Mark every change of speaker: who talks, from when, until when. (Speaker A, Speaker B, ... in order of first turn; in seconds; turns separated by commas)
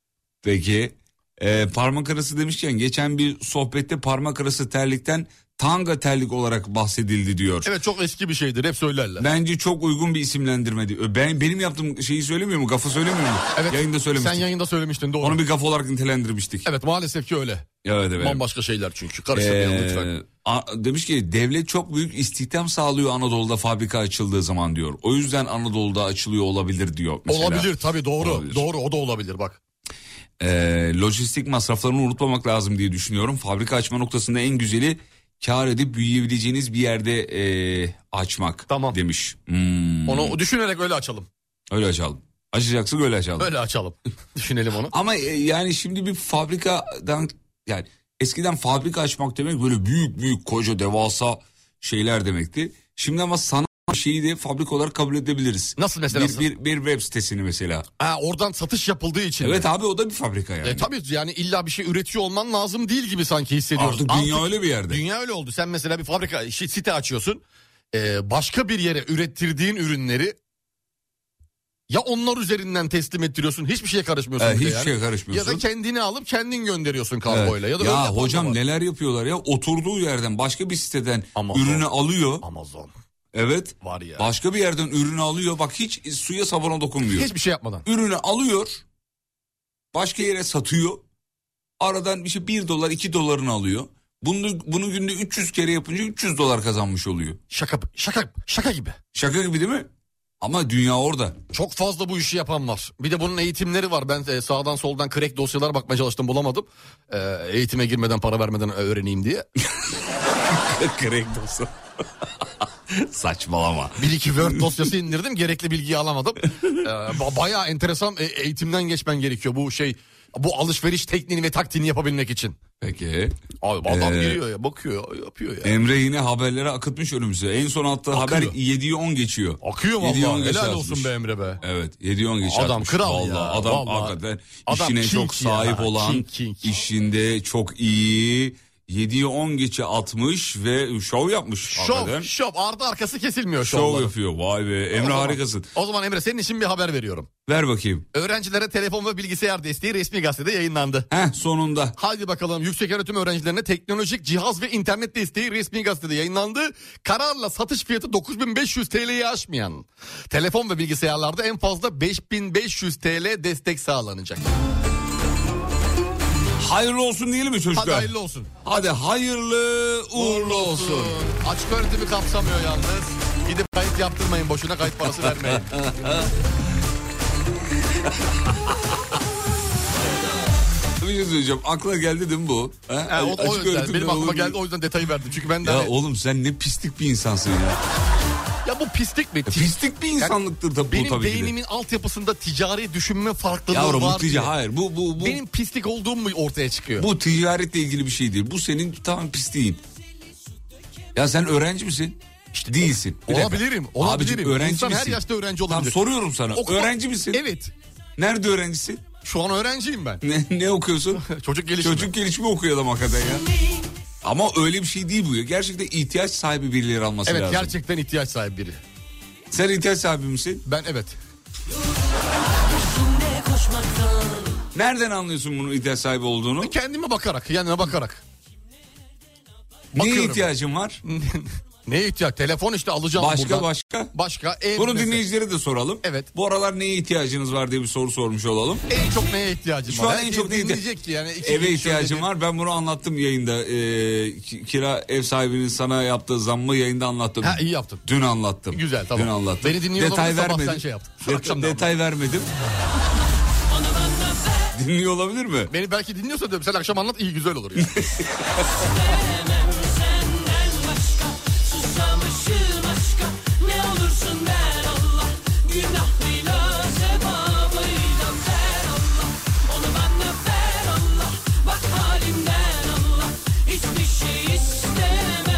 Speaker A: 0.4-7.7, Speaker B: 7.7-9.3, Speaker A: 9.2-14.5, Speaker B: 13.6-15.4, Speaker A: 15.2-16.7, Speaker B: 16.6-20.1, Speaker A: 17.8-18.4, Speaker A: 19.3-28.6, Speaker B: 27.3-29.6, Speaker A: 30.4-40.4, Speaker B: 38.7-39.0, Speaker B: 40.1-41.3, Speaker A: 41.7-43.5, Speaker B: 43.4-44.9, Speaker A: 44.9-57.9, Speaker B: 55.8-56.5, Speaker B: 58.0-59.7, Speaker A: 59.4-60.9, Speaker B: 60.6-70.4, Speaker A: 63.8-65.0, Speaker B: 71.9-78.6, Speaker A: 74.4-75.6, Speaker A: 77.3-82.5, Speaker B: 81.3-81.9, Speaker B: 82.4-82.9, Speaker A: 83.3-87.3, Speaker B: 83.8-84.3, Speaker B: 87.1-87.9, Speaker A: 87.8-88.8, Speaker A: 89.9-91.0, Speaker A: 91.8-97.4, Speaker B: 97.5-99.0, Speaker A: 99.1-99.9, Speaker A: 100.4-101.4, Speaker B: 101.5-109.5, Speaker A: 110.5-111.7, Speaker A: 112.9-114.0, Speaker B: 114.0-122.6, Speaker A: 122.8-124.4, Speaker B: 123.6-125.8, Speaker A: 125.6-131.1, Speaker B: 128.1-128.6, Speaker B: 129.6-131.6, Speaker A: 131.6-142.3, Speaker B: 132.4-136.7, Speaker B: 141.7-144.1, Speaker A: 143.6-145.7, Speaker B: 144.9-147.3, Speaker A: 147.5-148.1, Speaker B: 148.1-151.1, Speaker A: 151.1-151.9, Speaker B: 152.0-164.5, Speaker A: 166.6-168.1, Speaker B: 167.7-168.6, Speaker A: 168.6-171.2, Speaker B: 170.2-175.7, Speaker A: 175.6-176.3, Speaker A: 181.0-184.6, Speaker B: 183.1-185.9, Speaker A: 185.6-187.8, Speaker B: 188.6-190.4, Speaker A: 189.5-191.5, Speaker B: 190.9-194.5, Speaker A: 193.7-195.4, Speaker B: 195.2-197.1, Speaker A: 197.0-199.8, Speaker A: 201.2-202.2, Speaker B: 202.5-206.0, Speaker A: 202.7-207.4, Speaker B: 206.5-207.7, Speaker A: 208.2-209.0, Speaker B: 209.2-210.2, Speaker A: 210.2-211.2, Speaker B: 211.2-212.1, Speaker A: 211.8-213.4, Speaker A: 214.2-217.7, Speaker B: 217.3-218.8, Speaker A: 219.5-220.6, Speaker B: 220.7-221.2, Speaker A: 224.7-226.7, Speaker B: 226.6-228.2, Speaker A: 229.9-231.0, Speaker B: 229.9-230.5, Speaker B: 231.1-235.2, Speaker A: 233.2-234.1, Speaker A: 234.8-238.8, Speaker B: 236.0-236.3, Speaker B: 238.9-242.3, Speaker A: 239.9-240.8, Speaker A: 241.4-252.5, Speaker B: 247.4-248.0, Speaker B: 248.7-251.9, Speaker A: 254.7-255.7, Speaker B: 255.7-257.9, Speaker A: 257.9-258.2